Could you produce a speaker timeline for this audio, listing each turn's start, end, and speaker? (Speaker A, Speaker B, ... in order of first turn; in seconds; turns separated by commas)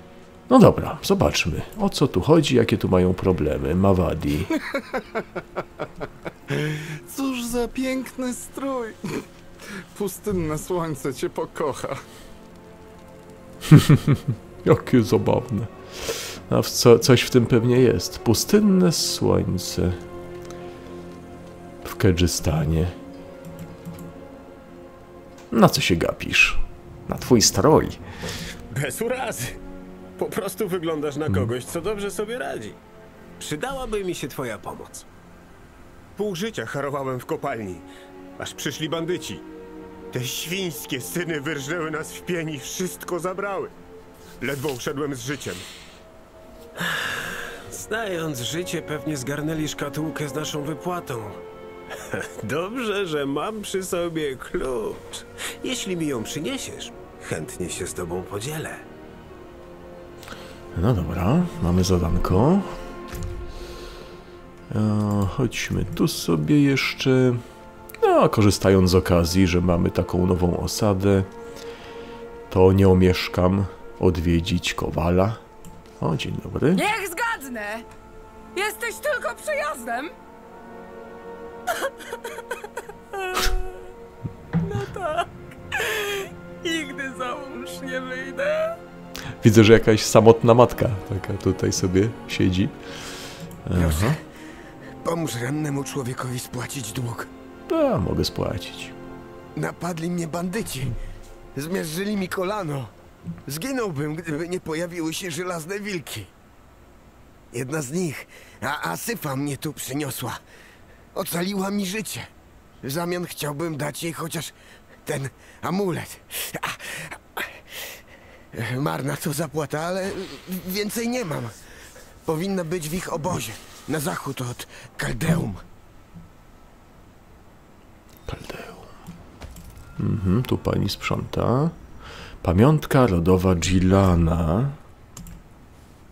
Speaker A: 0.5-4.5, Speaker B: 6.5-9.0, Speaker B: 9.9-12.0, Speaker A: 13.7-20.0, Speaker A: 21.8-22.9, Speaker A: 25.5-28.0, Speaker C: 28.7-29.6, Speaker C: 30.2-32.8, Speaker D: 33.4-35.0, Speaker C: 36.2-37.9, Speaker C: 38.4-39.4, Speaker C: 40.1-43.7, Speaker C: 44.4-45.6, Speaker D: 47.7-51.4, Speaker D: 52.1-58.8, Speaker A: 60.7-62.7, Speaker A: 64.7-67.4, Speaker A: 68.0-71.3, Speaker A: 72.5-75.4, Speaker A: 76.0-76.8, Speaker E: 84.7-85.2, Speaker E: 86.7-88.5, Speaker A: 89.4-92.7, Speaker A: 93.7-94.2, Speaker F: 93.7-94.2, Speaker F: 95.0-97.3, Speaker A: 97.7-98.9, Speaker F: 99.5-100.9, Speaker F: 101.5-102.9, Speaker F: 103.5-106.3, Speaker F: 107.5-110.4, Speaker F: 111.1-112.3, Speaker F: 112.8-114.5, Speaker F: 115.0-117.4, Speaker F: 118.5-121.5, Speaker F: 122.2-125.6, Speaker A: 128.3-128.9, Speaker A: 130.0-131.7, Speaker A: 132.4-134.8